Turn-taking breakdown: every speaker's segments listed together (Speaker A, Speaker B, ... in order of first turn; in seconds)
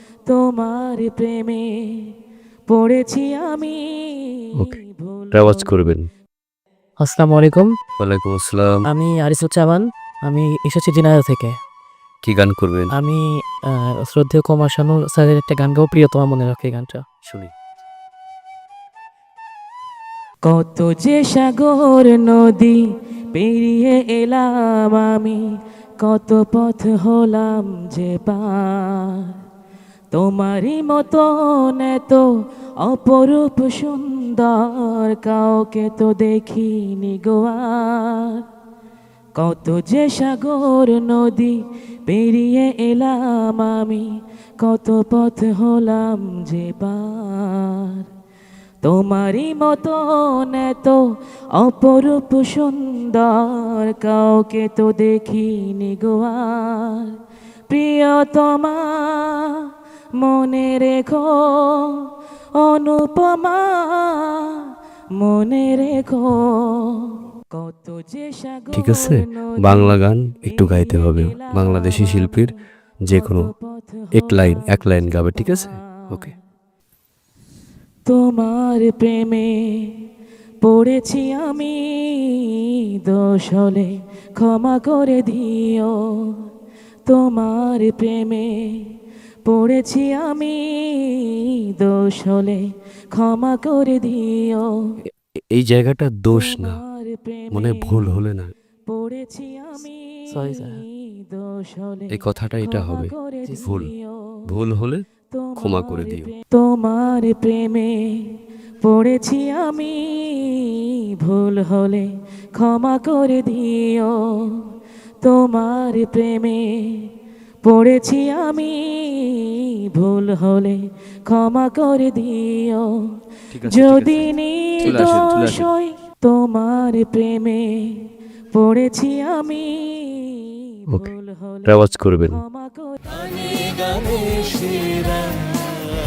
Speaker A: 0.3-2.1, 2.7-5.9, 20.4-29.4, 30.1-38.5, 39.4-48.1, 48.8-57.2, 57.7-72.6, 73.1-76.4, 78.1-80.0, 80.6-86.5, 87.1-88.9, 89.5-95.0, 96.3-98.2, 98.9-104.4, 105.3-114.7, 115.2-117.1, 117.6-123.2, 123.7-135.4
Speaker B: 5.3-6.1, 8.0-8.9, 12.2-12.9, 17.2-17.5, 68.7-73.5, 74.1-76.3, 95.1-96.8, 97.5-98.5, 102.1-103.9, 104.5-106.3, 123.5-125.7, 131.7-132.4
Speaker C: 7.0-7.8, 8.9-11.6, 12.9-17.1, 100.3-100.8